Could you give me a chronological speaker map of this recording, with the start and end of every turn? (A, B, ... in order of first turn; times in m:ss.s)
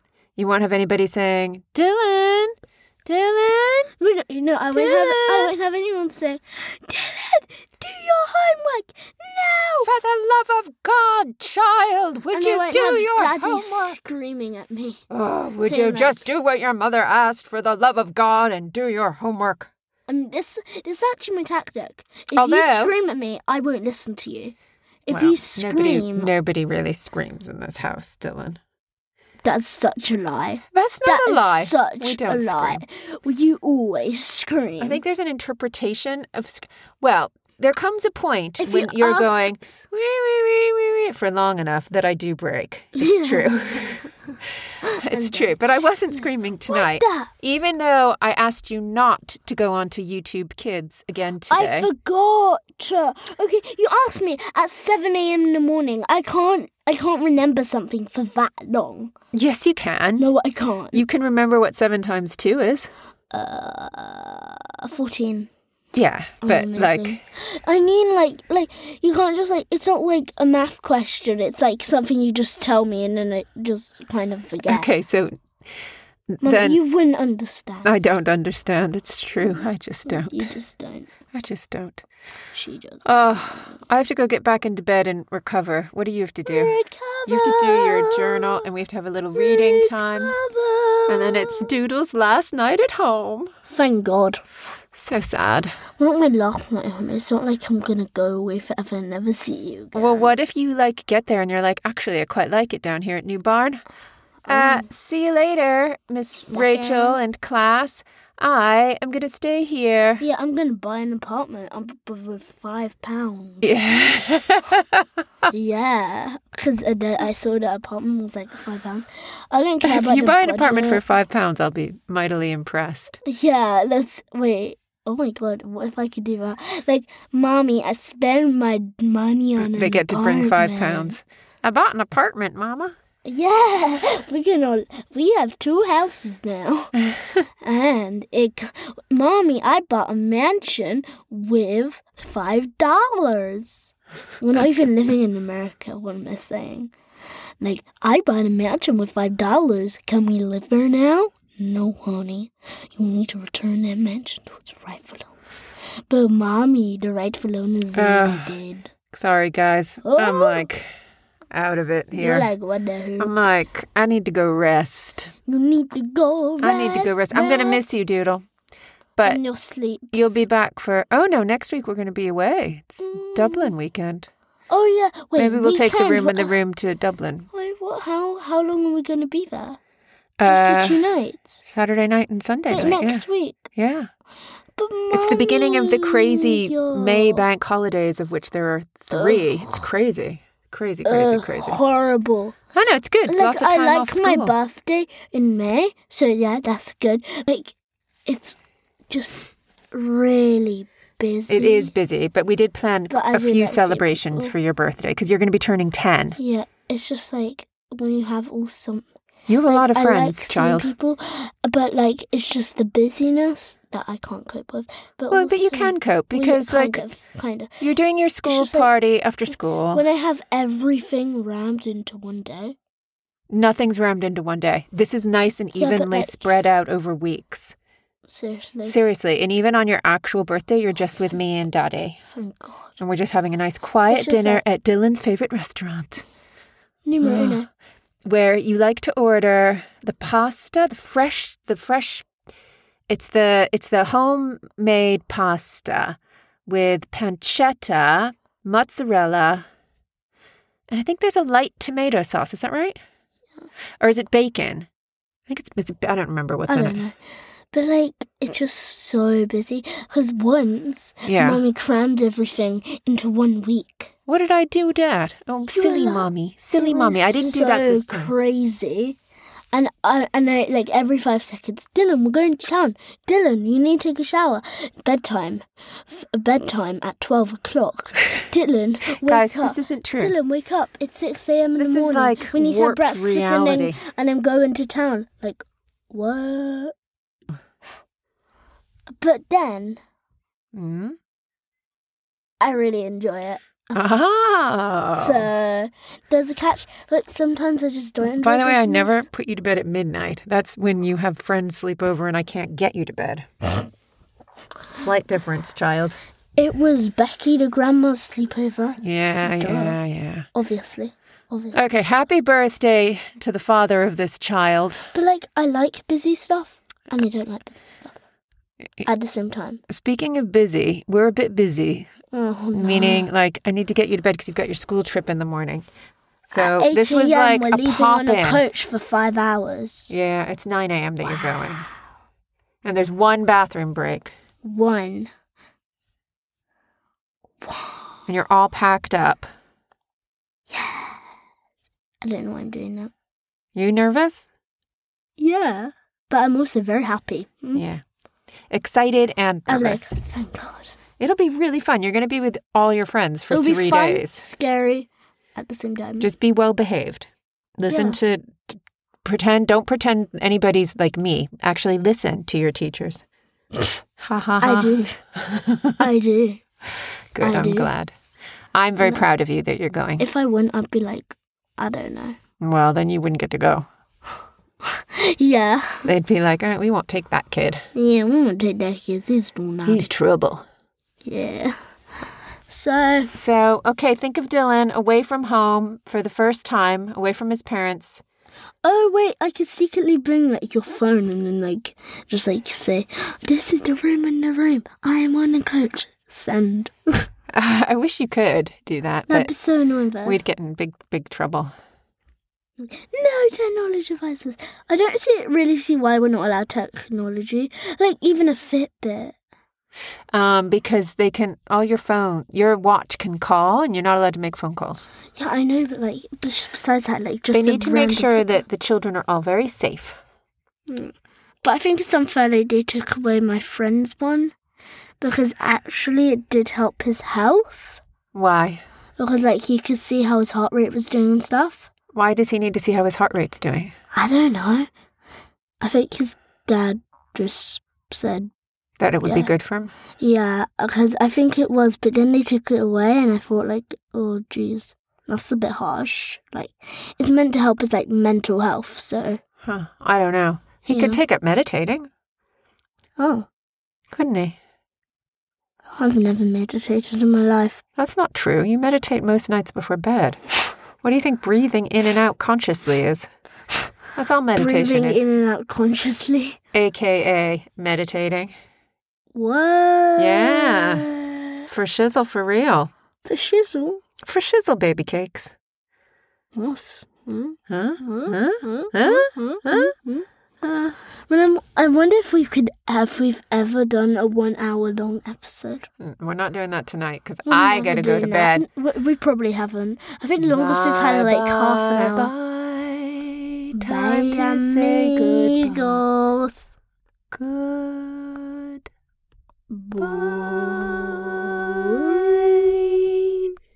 0:00.4-0:02.5 A
0:03.1-0:03.9 A
0:04.0-0:09.9 B
0:04.7-0:05.5 A
0:09.8-0:14.0 A
0:12.3-0:15.0 B
0:15.1-0:19.7 A
0:15.6-0:16.2 B
0:20.1-0:24.6 B
0:22.4-0:22.9 A
0:25.1-0:26.3 B
0:25.1-0:28.6 A
0:29.4-0:35.0 B
0:30.7-0:32.8 A
0:34.8-0:44.1 A
0:38.6-0:39.8 B
0:43.0-0:44.1 B
0:44.8-0:45.6 B
0:45.0-0:51.9 A
0:46.1-0:47.3 B
0:51.5-0:59.1 B
0:59.3-1:00.3 A
1:00.2-1:01.0 B
1:00.9-1:02.9 A
1:03.3-1:05.5 B
1:06.0-1:07.2 A
1:06.4-1:14.9 B
1:14.7-1:15.3 A
1:16.3-1:16.8 A
1:16.4-1:17.9 B
1:17.8-1:20.5 A
1:19.5-1:21.1 B
1:21.3-1:22.0 A
1:22.5-1:23.8 B
1:23.0-1:30.4 A
1:26.5-1:28.7 B
1:29.3-1:31.8 B
1:31.1-1:33.5 A
1:33.7-1:34.4 B
1:34.9-1:35.8 A
1:36.0-1:40.3 B
1:39.9-1:43.8 A
1:44.5-1:44.9 B
1:44.5-1:50.2 A
1:46.4-1:47.2 B
1:50.2-1:54.1 B
1:53.6-1:55.1 A
1:55.5-2:01.0 B
1:59.8-2:03.2 A
2:03.3-2:11.2 B
2:09.6-2:13.0 A
2:13.2-2:17.0 B
2:17.6-2:26.9 B
2:27.6-2:35.3 B
2:36.1-2:38.9 B
2:38.0-2:38.5 A
2:39.1-2:40.9 A
2:40.0-2:40.7 B
2:41.5-2:42.5 A
2:42.1-2:43.4 B
2:43.2-2:45.3 A
2:45.5-2:47.8 B
2:46.6-2:48.4 A
2:49.2-2:50.4 B
2:50.1-2:54.3 A
2:53.1-2:53.7 B
2:54.7-2:56.6 B
2:55.4-2:57.5 A
2:57.5-2:59.8 B
3:00.4-3:01.0 A
3:00.4-3:01.6 B
3:01.6-3:04.1 A
3:02.7-3:03.6 B
3:04.8-3:07.4 B
3:05.1-3:11.8 A
3:09.1-3:09.9 B
3:11.0-3:12.6 B
3:12.7-3:14.6 A
3:13.3-3:18.6 B
3:19.1-3:21.9 B
3:21.5-3:26.4 A
3:23.1-3:24.5 B
3:26.4-3:29.1 B
3:29.5-3:30.9 A
3:29.7-3:37.8 B
3:35.3-3:37.0 A
3:37.8-3:40.0 A
3:38.4-3:38.9 B
3:39.9-3:42.8 B
3:43.5-3:47.8 A
3:45.7-3:46.5 B
3:48.3-3:49.0 B
3:48.8-3:52.2 A
3:52.3-3:53.0 B
3:53.0-3:56.2 A
3:54.1-3:54.6 B
3:57.1-3:57.7 B
3:57.2-3:57.6 A
3:58.3-4:02.3 A
4:03.1-4:09.7 A
4:10.9-4:13.0 A
4:14.0-4:14.9 A
4:15.5-4:17.0 A
4:16.7-4:17.2 B
4:17.7-4:24.1 B
4:21.3-4:21.6 A
4:24.3-4:28.3 A
4:25.7-4:29.2 B
4:29.7-4:46.9 B
4:39.2-4:40.4 A
4:41.8-4:44.0 A
4:49.2-4:50.0 B
4:50.7-4:51.2 A
4:52.6-4:53.9 B
4:53.9-4:55.5 A
4:55.1-4:59.2 B
4:58.2-5:03.8 A
5:04.9-5:06.2 A
5:06.6-5:10.0 B
5:09.0-5:10.5 A
5:10.5-5:11.8 B
5:11.7-5:15.1 A
5:15.1-5:18.2 B
5:19.0-5:19.8 B
5:19.9-5:22.1 A
5:22.3-5:23.3 B
5:22.7-5:25.9 A
5:26.5-5:28.6 A
5:26.5-5:30.1 B
5:30.1-5:31.9 A
5:31.4-5:31.8 B
5:32.8-5:34.3 A
5:34.6-5:35.3 B
5:37.6-5:38.1 B
5:38.3-5:39.5 A
5:40.7-5:41.2 B
5:42.2-5:43.1 B
5:43.8-5:44.5 A
5:45.4-5:47.8 B
5:47.7-5:48.0 A
5:48.7-5:50.2 A
5:49.7-5:51.0 B
5:51.2-5:54.5 A
5:53.5-5:56.3 B
5:56.2-6:03.2 A
5:57.9-5:58.2 B
6:04.2-6:06.0 A
6:04.6-6:05.2 B
6:06.0-6:06.6 B
6:07.3-6:08.1 A
6:07.4-6:07.9 B
6:08.7-6:10.2 A
6:09.0-6:09.3 B
6:10.2-6:12.4 B
6:12.6-6:13.9 A
6:14.8-6:16.1 B
6:16.0-6:17.9 A
6:18.0-6:20.1 B
6:19.9-6:20.6 A
6:21.2-6:21.8 B
6:22.7-6:23.3 B
6:23.3-6:28.2 A
6:28.8-6:37.3 B
6:37.5-6:39.5 A
6:39.3-6:40.4 B
6:40.2-6:41.7 A
6:42.8-6:49.4 B
6:50.3-6:55.1 A
6:55.4-6:58.6 B
6:57.5-7:00.2 A
7:00.9-7:04.5 B
7:05.2-7:08.0 B
7:08.3-7:08.8 A
7:09.2-7:11.9 B
7:12.1-7:13.9 A
7:14.1-7:14.9 B
7:15.8-7:18.5 B
7:19.0-7:19.9 A
7:19.2-7:19.5 B
7:20.2-7:29.4 B
7:29.6-7:32.1 A
7:30.8-7:31.2 B
7:33.2-7:33.5 B
7:34.1-7:34.6 A
7:36.0-7:37.8 B
7:38.0-7:40.4 A
7:41.0-7:43.3 A
7:44.2-7:45.2 A
7:44.6-7:46.6 B
7:46.7-7:48.5 A
7:49.3-7:51.6 B
7:50.2-7:51.1 A
7:51.7-7:52.9 A
7:53.2-7:54.0 B
7:54.2-7:55.5 A
7:56.6-8:05.9 B
7:57.7-8:00.0 A
8:06.0-8:08.6 A
8:07.5-8:12.3 B
8:10.4-8:16.0 A
8:13.8-8:16.7 B
8:17.3-8:18.8 A
8:19.7-8:22.4 B
8:20.0-8:23.5 A